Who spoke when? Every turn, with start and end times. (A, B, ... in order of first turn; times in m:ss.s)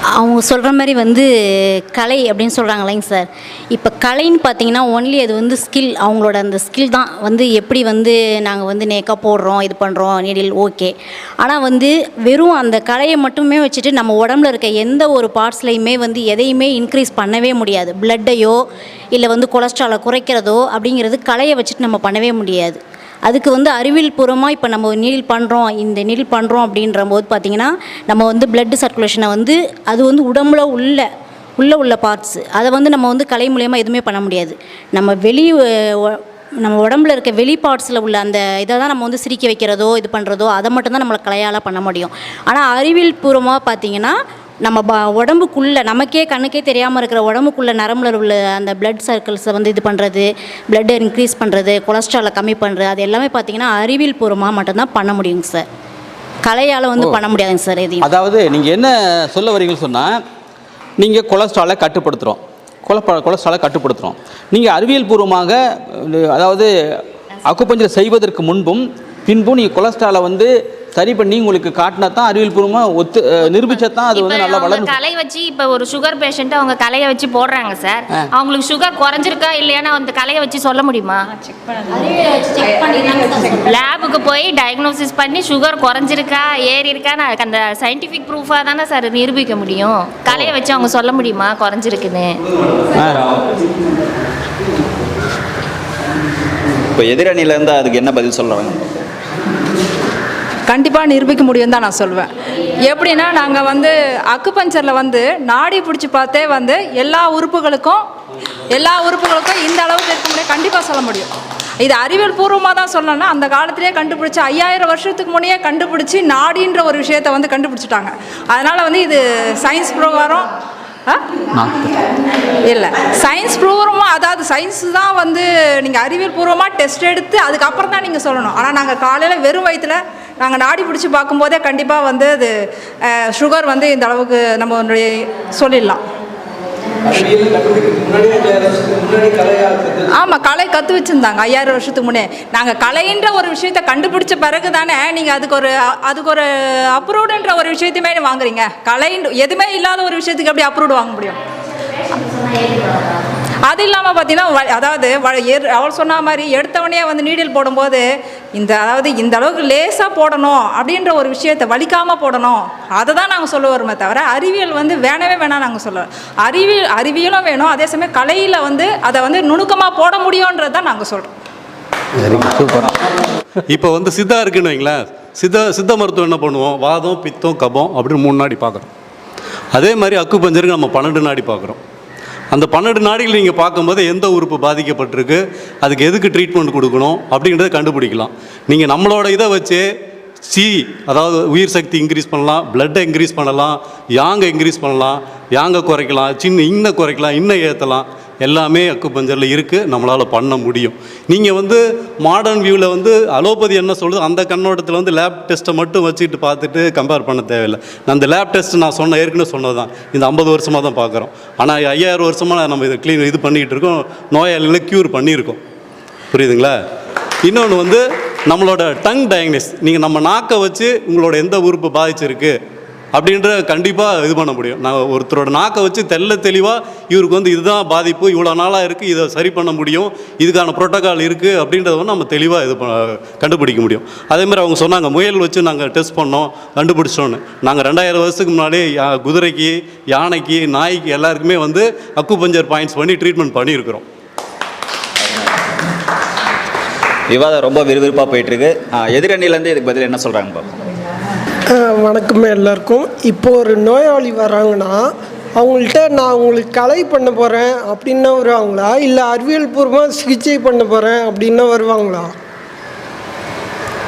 0:00.2-0:18.6 A
0:19.1-0:31.1 A
0:31.6-0:55.6 A
0:56.4-0:58.1 A
0:58.0-1:00.2 B
1:01.0-1:06.7 B
1:07.4-1:14.9 B
1:13.5-1:21.2 C
1:21.9-1:23.7 A
1:23.6-1:32.4 C
1:32.9-1:33.4 B
1:36.9-1:39.0 D
1:40.7-1:48.0 E
1:48.7-2:00.5 E
2:01.5-2:02.0 B
2:02.6-2:12.5 E
2:13.0-2:16.0 E
2:17.1-2:20.0 B
2:20.1-2:31.4 E
2:32.5-2:32.9 C
2:33.7-2:51.3 E
2:52.2-2:53.0 B
2:53.7-2:58.9 F
2:59.7-3:01.8 F
3:02.5-3:09.8 F
3:10.5-3:35.6 F
3:36.3-3:36.8 F
3:37.4-3:42.6 F
3:43.1-4:04.0 F
4:07.3-4:10.8 D
4:11.7-4:22.3 G